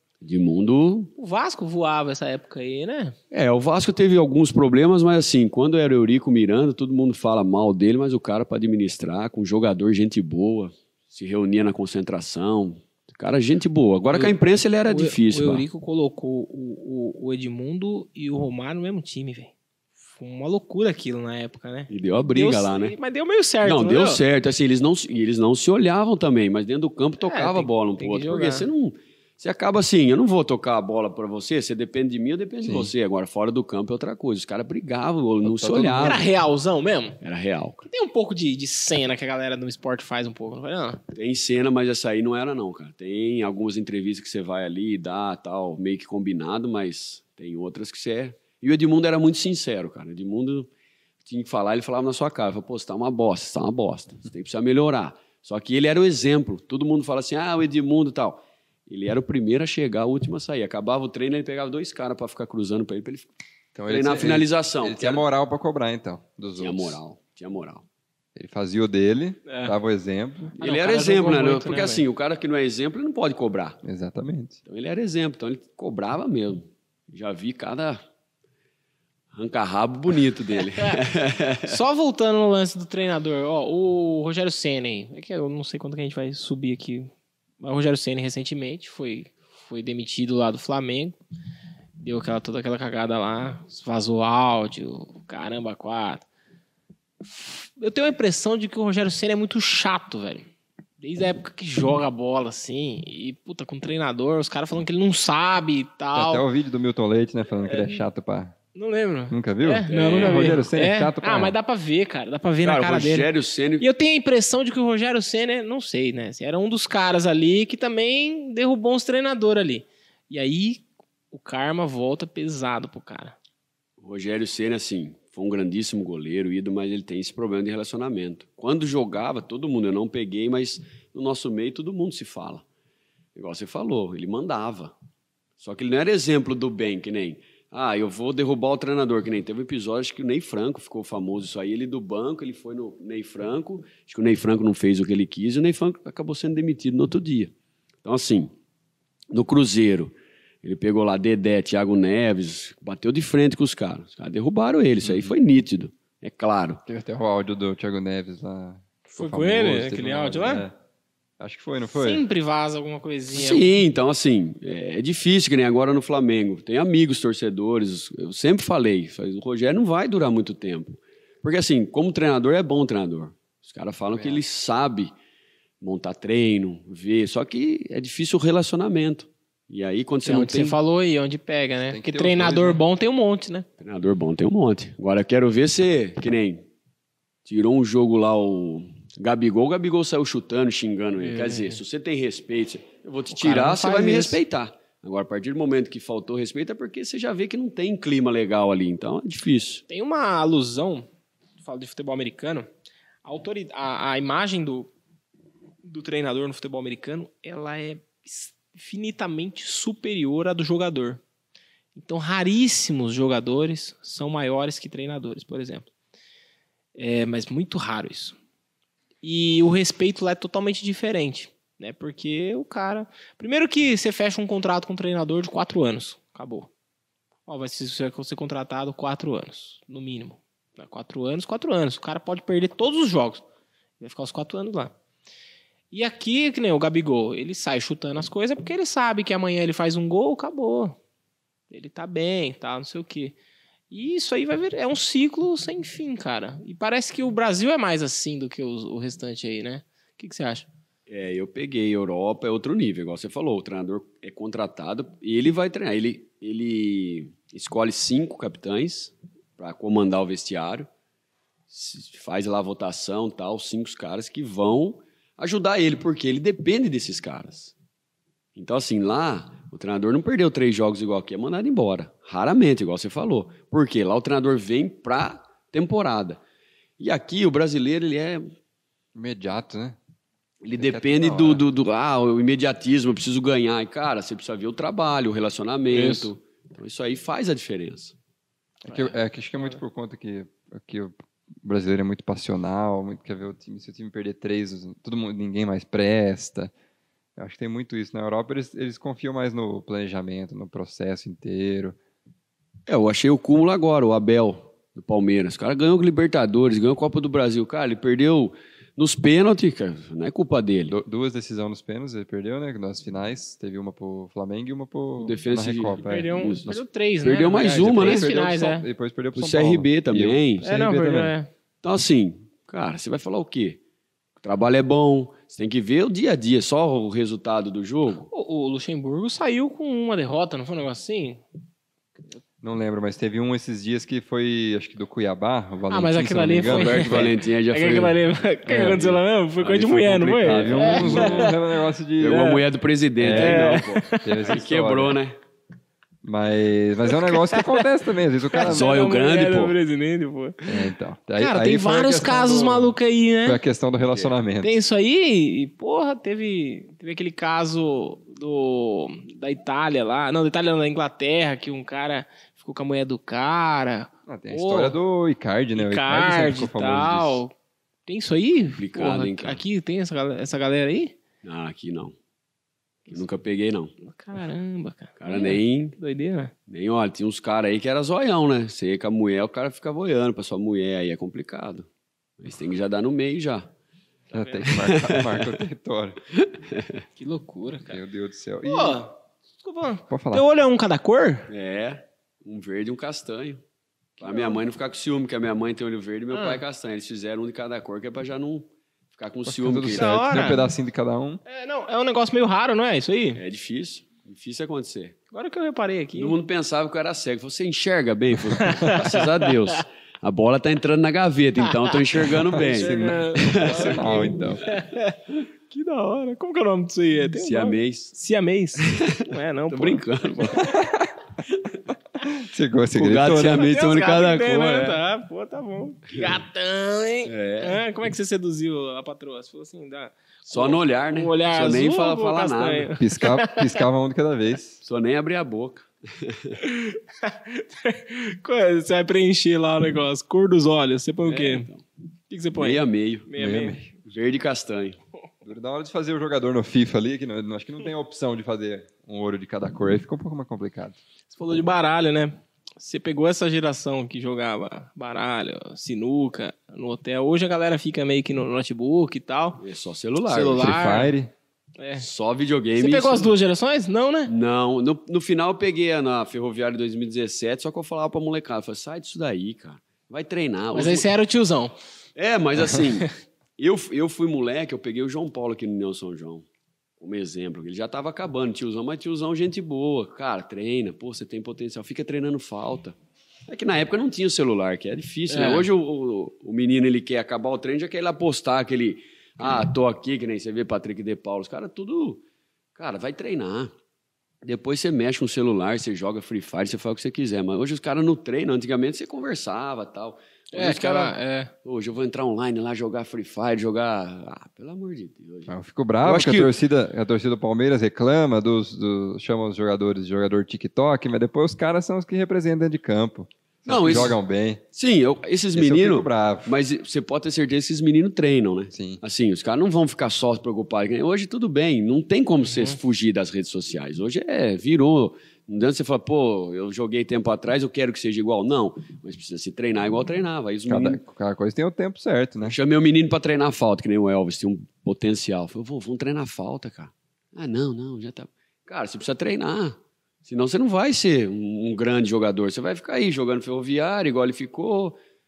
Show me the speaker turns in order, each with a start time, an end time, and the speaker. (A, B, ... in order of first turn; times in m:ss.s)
0:00.2-0:01.1 A
0:01.2-0:03.2 B
0:03.3-0:15.7 A
0:14.9-0:19.5 B
0:20.1-0:24.2 B
0:21.9-0:23.0 A
0:23.6-0:36.2 A
0:27.2-0:28.7 B
0:32.6-0:32.9 C
0:35.4-0:36.2 C
0:36.0-0:37.2 B
0:37.2-0:37.8 A
0:37.8-0:41.0 B
0:41.1-0:50.7 A
0:51.2-1:03.3 A
1:03.8-1:07.0 C
1:03.9-1:05.2 A
1:06.6-1:07.8 A
1:08.4-1:10.5 C
1:09.5-1:09.8 B
1:10.6-1:13.8 A
1:10.6-1:12.0 B
1:13.8-1:14.6 C
1:14.7-1:18.0 A
1:19.3-1:21.8 A
1:21.7-1:27.1 B
1:27.6-1:31.2 B
1:32.0-1:36.3 B
1:37.2-1:40.5 B
1:41.0-1:46.5 B
1:46.1-1:48.6 C
1:47.7-1:48.0 B
1:48.8-2:03.4 B
1:49.3-1:51.6 C
1:49.9-1:50.6 A
1:52.6-1:53.9 A
2:04.0-2:12.6 A
2:13.4-2:15.0 A
2:15.6-2:27.5 A
2:28.0-2:28.5 A
2:29.3-2:36.8 A
2:35.0-2:35.4 C
2:36.9-2:40.8 C
2:39.1-2:40.6 B
2:41.4-2:42.2 C
2:41.9-2:43.7 B
2:43.3-2:55.1 A
2:54.1-2:54.4 C
2:55.8-3:00.8 A
3:00.2-3:03.7 B
3:01.9-3:02.8 C
3:03.8-3:06.7 A
3:07.4-3:19.8 A
3:11.2-3:11.8 B
3:13.3-3:14.4 B
3:19.9-3:21.1 B
3:21.6-3:22.7 B
3:23.2-3:24.9 B
3:25.8-3:31.2 B
3:32.0-3:35.9 B
3:37.0-3:38.4 B
3:39.2-3:46.7 B
3:47.5-3:53.4 B
3:54.0-3:54.9 B
3:55.9-4:01.0 B
4:01.7-4:03.4 B
4:03.9-4:10.7 B
4:11.1-4:20.9 A
4:21.7-4:27.7 A
4:28.6-4:36.4 A
4:37.0-4:38.5 A
4:39.2-4:40.0 C
4:40.6-4:48.2 A
4:40.7-4:41.6 C
4:45.9-4:46.3 B
4:48.8-4:56.7 C
4:57.4-5:02.0 C
5:02.9-5:11.0 A
5:10.9-5:16.8 C
5:15.2-5:16.7 A
5:16.0-5:18.9 B
5:17.2-5:18.3 A
5:17.7-5:21.3 C
5:19.4-5:20.7 A
5:20.6-5:21.5 B
5:21.8-5:23.8 A
5:24.4-5:28.3 A
5:28.3-5:31.4 B
5:32.6-5:37.3 C
5:35.9-5:41.6 B
5:36.6-5:41.6 A
5:40.4-5:42.6 C
5:42.2-5:45.4 A
5:42.3-5:42.6 B
5:43.2-5:45.2 C
5:43.4-5:44.3 B
5:46.2-5:49.0 C
5:47.1-5:47.8 B
5:48.5-5:50.7 B
5:48.6-5:49.8 A
5:50.7-5:54.8 C
5:51.4-5:53.6 B
5:54.6-6:05.0 B
6:04.3-6:07.4 C
6:05.8-6:07.5 B
6:08.1-6:11.2 B
6:08.8-6:09.6 A
6:11.4-6:12.2 A
6:13.1-6:13.9 A
6:14.0-6:16.5 B
6:15.2-6:16.0 A
6:16.7-6:21.9 A
6:22.4-6:23.7 A
6:24.3-6:24.7 B
6:24.3-6:26.2 C
6:24.7-6:25.5 A
6:26.4-6:27.0 A
6:27.2-6:28.0 B
6:27.9-6:29.0 C
6:28.6-6:31.5 B
6:30.1-6:30.4 C
6:31.5-6:33.6 A
6:34.2-6:40.2 A
6:34.2-6:34.6 B
6:36.3-6:36.6 B
6:39.5-6:41.4 C
6:39.9-6:40.7 B
6:41.5-6:43.4 B
6:43.4-6:45.2 A
6:45.3-6:46.4 B
6:46.2-6:54.4 A
6:48.6-6:49.8 B
6:51.9-7:00.9 B
6:52.6-6:54.7 C
6:57.4-6:58.1 A
6:58.8-7:00.7 A
7:00.6-7:01.1 C
7:02.3-7:03.7 C
7:03.0-7:05.0 A
7:03.4-7:13.8 B
7:07.2-7:07.8 A
7:10.5-7:12.9 A
7:13.0-7:14.8 C
7:14.8-7:16.6 A
7:16.6-7:21.7 B
7:21.2-7:21.8 A
7:22.3-7:23.8 B
7:22.6-7:23.3 A
7:23.4-7:23.9 C
7:24.0-7:25.0 A
7:25.4-7:31.0 C
7:31.3-7:39.6 B
7:39.6-7:40.7 A
7:40.2-7:41.1 B
7:40.6-7:41.3 C
7:41.8-7:42.0 B
7:42.0-7:43.3 A
7:42.8-7:44.3 B
7:44.3-7:51.1 A
7:50.7-7:51.8 B
7:52.2-7:56.4 A
7:57.0-8:03.0 A
8:03.5-8:12.2 A
8:05.3-8:05.7 B
8:12.8-8:13.7 A
8:14.4-8:26.5 A
8:20.5-8:21.5 B
8:25.5-8:34.6 C
8:33.7-8:34.2 A
8:34.7-8:51.0 A
8:35.5-8:36.5 C
8:38.7-8:39.0 C
8:42.5-8:42.8 B
8:50.7-8:52.6 C
8:52.4-9:05.0 A